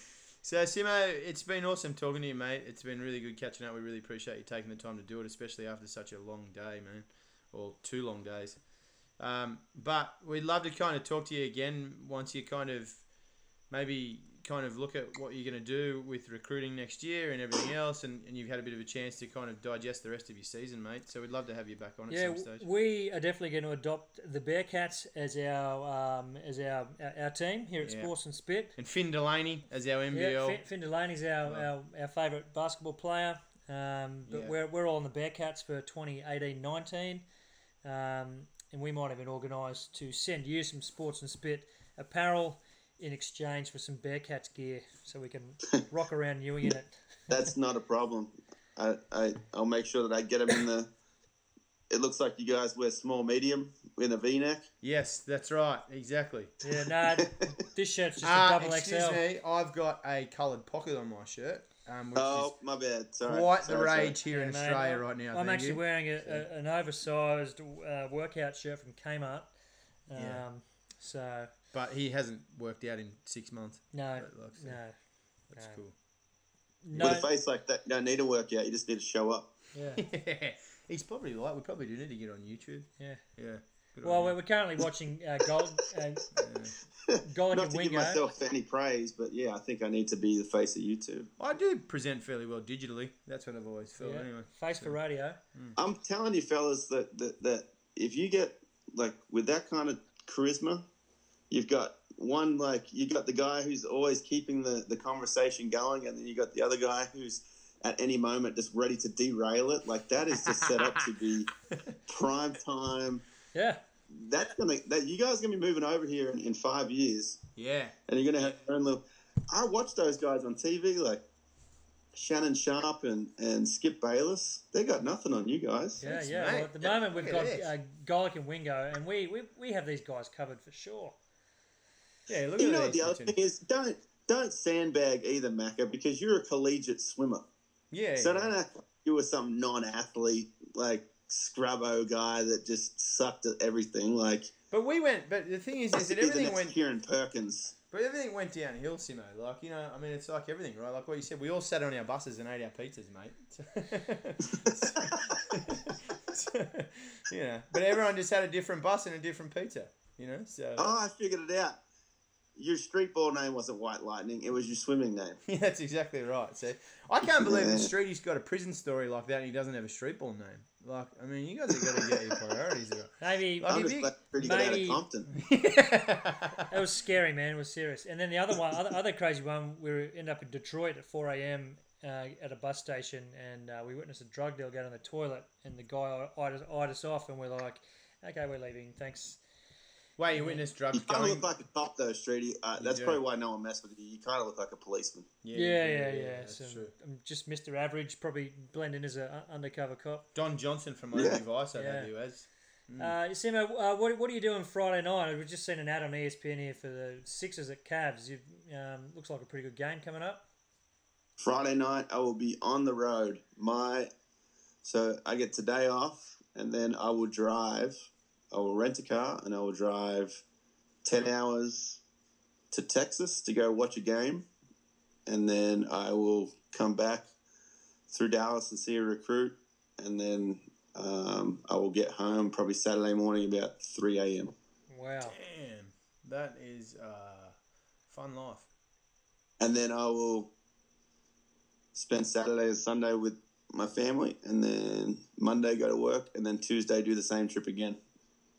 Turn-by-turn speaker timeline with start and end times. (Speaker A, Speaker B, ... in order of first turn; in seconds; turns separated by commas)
Speaker A: 0.4-13.1, Speaker A: 13.7-22.7, Speaker B: 22.1-28.8, Speaker A: 27.9-28.1, Speaker A: 28.8-30.6, Speaker B: 30.1-37.3, Speaker A: 34.3-34.5, Speaker B: 37.8-47.5, Speaker C: 47.3-50.9, Speaker C: 51.9-54.7, Speaker A: 54.8-56.5, Speaker B: 56.6-59.2, Speaker C: 57.2-57.5, Speaker A: 58.2-62.5, Speaker C: 62.1-64.2, Speaker A: 63.3-66.4, Speaker B: 64.2-69.5, Speaker B: 70.1-71.5, Speaker A: 70.2-70.5, Speaker A: 71.7-74.8, Speaker B: 73.9-75.0, Speaker A: 75.5-76.0, Speaker B: 75.5-75.8, Speaker B: 76.8-77.3, Speaker A: 76.9-77.2, Speaker C: 77.0-79.5, Speaker B: 79.7-80.0, Speaker A: 80.0-84.4, Speaker B: 83.0-83.3, Speaker B: 83.9-86.3, Speaker A: 86.4-86.8, Speaker C: 87.1-91.3, Speaker B: 87.2-88.2, Speaker A: 91.4-95.0, Speaker B: 94.0-95.4, Speaker C: 95.8-100.8, Speaker C: 101.5-111.5, Speaker A: 110.4-111.1, Speaker C: 112.1-113.2, Speaker B: 113.5-113.8, Speaker C: 114.1-117.4, Speaker A: 117.6-118.0, Speaker C: 118.1-121.2, Speaker C: 122.1-126.0, Speaker A: 126.0-127.7, Speaker B: 126.0-131.2, Speaker A: 132.3-133.4, Speaker C: 132.6-137.4, Speaker A: 137.9-138.5, Speaker C: 138.2-144.5, Speaker A: 144.7-146.8, Speaker C: 145.9-147.7, Speaker A: 147.9-160.9, Speaker C: 154.5-155.6, Speaker C: 160.8-161.8, Speaker C: 162.6-165.4, Speaker A: 165.5-174.1, Speaker C: 167.2-167.9, Speaker C: 171.8-172.4, Speaker B: 173.2-175.0, Speaker C: 173.7-175.3, Speaker A: 175.3-176.8, Speaker B: 176.7-189.4, Speaker A: 190.2-191.4, Speaker B: 190.3-190.6, Speaker C: 190.9-195.3, Speaker A: 192.8-193.2, Speaker A: 195.4-196.9, Speaker B: 195.5-200.3, Speaker A: 200.3-203.2, Speaker C: 201.1-201.4, Speaker B: 201.8-202.3, Speaker B: 202.9-210.4, Speaker C: 211.4-214.1, Speaker C: 214.8-218.0, Speaker C: 218.5-220.4, Speaker C: 221.0-222.0, Speaker C: 222.7-224.5, Speaker C: 225.3-227.3, Speaker C: 228.1-234.5, Speaker B: 234.9-235.3, Speaker A: 235.2-237.6, Speaker A: 238.1-238.7, Speaker C: 239.6-240.5, Speaker C: 241.9-248.0